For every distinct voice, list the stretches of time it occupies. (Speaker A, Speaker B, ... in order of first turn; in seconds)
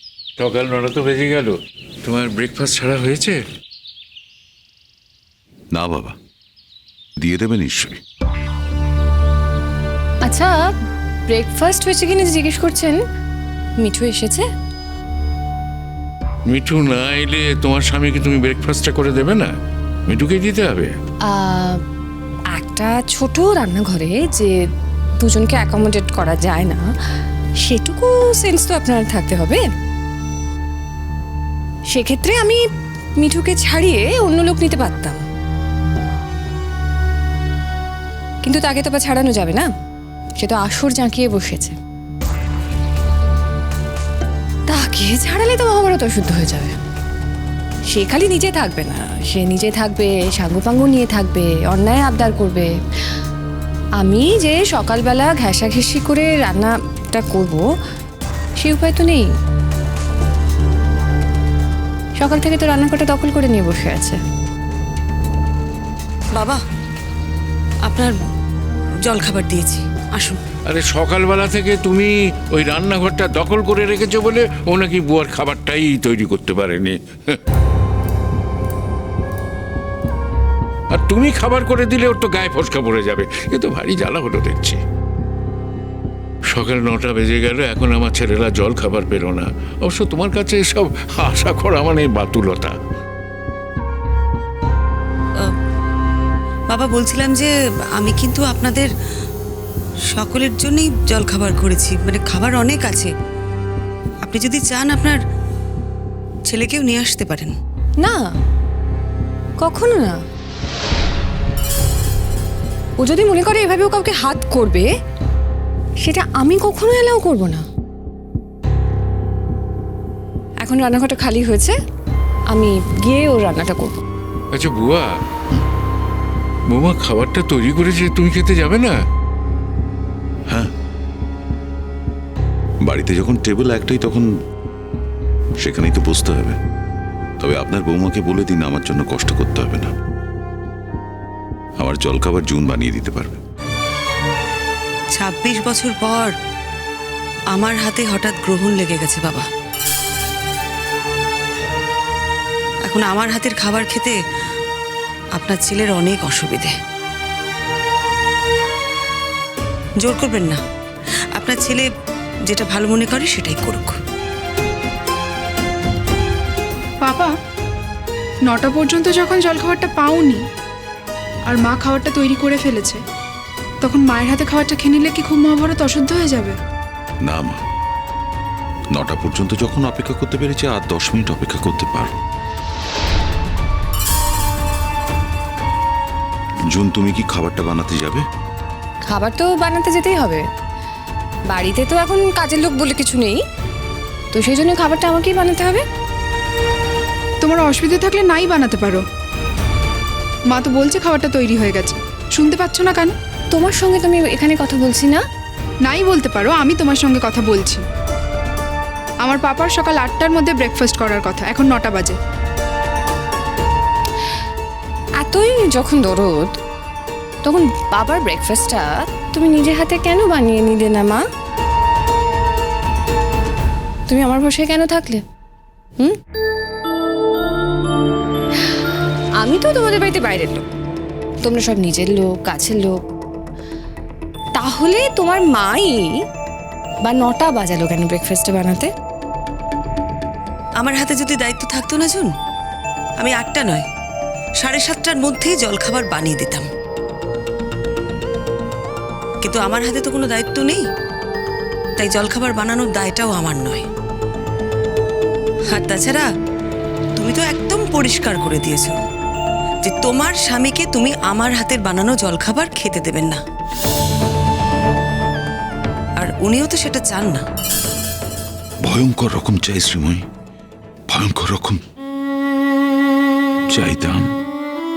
Speaker A: 0.4-3.4, 16.5-19.5, 20.1-20.9, 70.7-77.4, 80.9-84.8, 86.5-92.8, 124.5-125.1, 126.7-129.0
Speaker B: 5.7-6.2, 7.2-8.0, 132.8-134.3, 135.6-136.6, 137.4-139.9, 141.8-143.4, 177.2-177.6, 178.9-182.1, 186.7-188.2, 268.8-270.2, 271.1-271.8, 273.7-274.3
Speaker C: 10.2-10.6, 11.3-13.0, 13.8-14.5, 21.3-21.8, 22.5-24.6, 25.2-26.8, 27.7-29.6, 31.9-32.6, 33.2-35.2, 38.4-39.7, 40.4-41.8, 44.7-46.8, 47.9-52.7, 54.0-57.6, 58.6-59.3, 62.2-64.2, 108.0-108.3, 109.6-110.2, 113.0-114.9, 116.0-117.7, 120.6-121.8, 122.5-124.0, 189.1-190.4, 191.5-193.4, 194.3-195.8, 203.5-205.2, 215.2-216.5, 217.4-221.2, 224.1-225.2, 229.4-230.7, 231.4-233.0, 234.6-236.2, 237.1-238.9
Speaker D: 67.8-68.2, 69.0-70.4, 96.7-98.9, 100.1-103.1, 104.2-105.2, 106.5-107.5, 145.1-146.3, 147.5-149.5, 152.8-154.2, 155.4-156.8, 160.0-160.6, 161.3-161.9, 162.5-164.0, 240.8-242.3, 243.2-243.8, 244.6-246.7, 249.4-250.8, 252.0-253.8, 255.7-256.3, 257.2-259.0, 259.8-263.4, 266.2-267.4
Speaker E: 167.0-167.3, 168.5-170.4, 171.5-173.0, 173.8-176.6, 197.4-199.0, 200.5-203.1, 205.9-207.8, 209.2-212.2